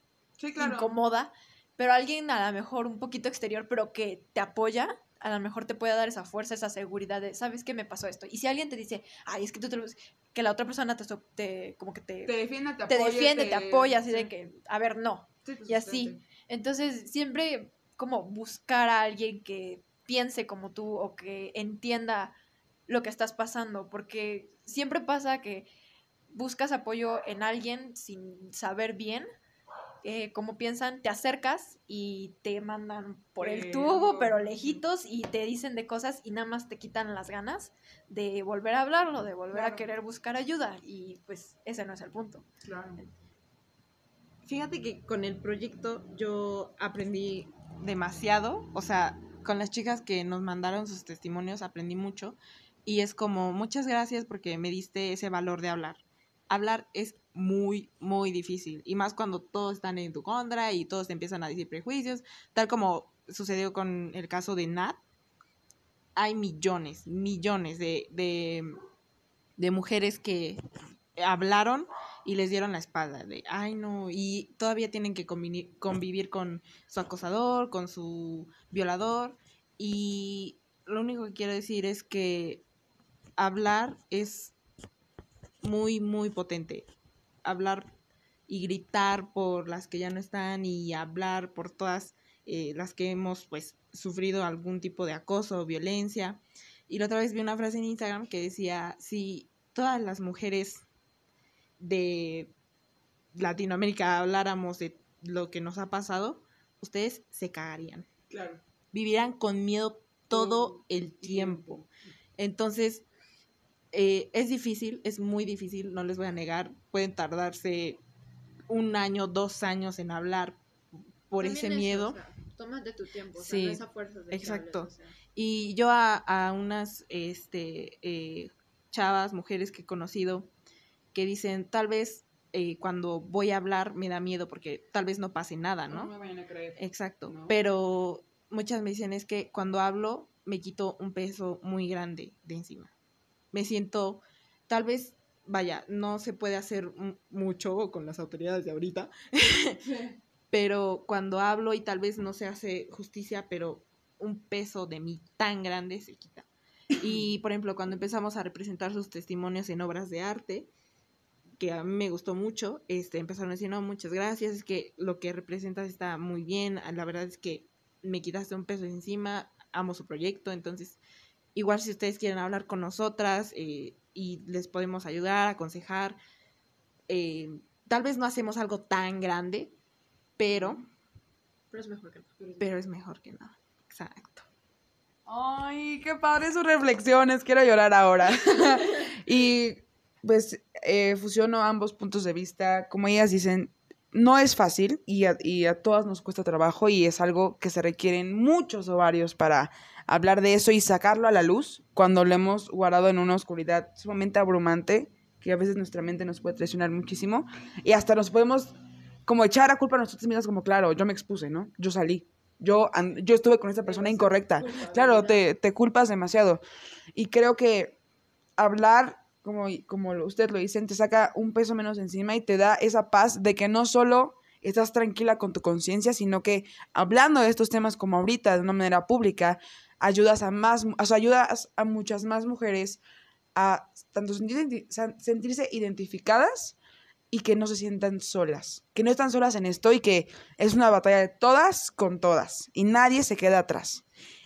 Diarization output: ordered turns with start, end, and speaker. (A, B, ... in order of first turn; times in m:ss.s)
0:00.4-0:01.0 A
0:00.6-0:22.4 B
0:12.2-0:14.3 A
0:15.4-0:16.2 A
0:22.9-0:25.7 B
0:26.3-0:29.2 B
0:30.0-0:42.4 B
0:33.4-0:34.8 A
0:39.5-0:39.8 A
0:42.6-0:43.0 A
0:44.4-1:05.0 C
1:06.2-1:08.7 C
1:09.6-1:10.6 C
1:11.2-1:22.6 C
1:23.4-1:24.5 C
1:25.6-1:26.9 C
1:27.4-1:27.9 C
1:28.5-1:40.8 C
1:41.8-1:42.5 C
1:43.3-1:48.1 C
1:48.3-1:48.6 A
1:48.9-1:51.8 C
1:50.3-1:51.8 A
1:52.4-1:53.0 C
1:53.9-1:58.0 C
1:58.7-2:00.6 C
2:01.3-2:02.2 C
2:01.4-2:05.2 B
2:03.4-2:10.5 C
2:11.1-2:16.1 C
2:15.9-2:17.5 A
2:16.8-2:22.9 C
2:23.5-2:29.8 C
2:30.5-2:40.7 C
2:41.6-2:51.0 C
2:51.5-2:56.2 C
2:57.1-2:59.7 C
3:00.4-3:00.8 C
3:01.7-3:02.6 B
3:02.6-3:04.5 C
3:05.2-3:28.7 A
3:29.2-3:36.6 A
3:33.8-3:35.3 C
3:37.1-3:38.0 A
3:38.6-3:53.0 A
3:53.5-3:56.8 A
3:57.3-4:04.0 A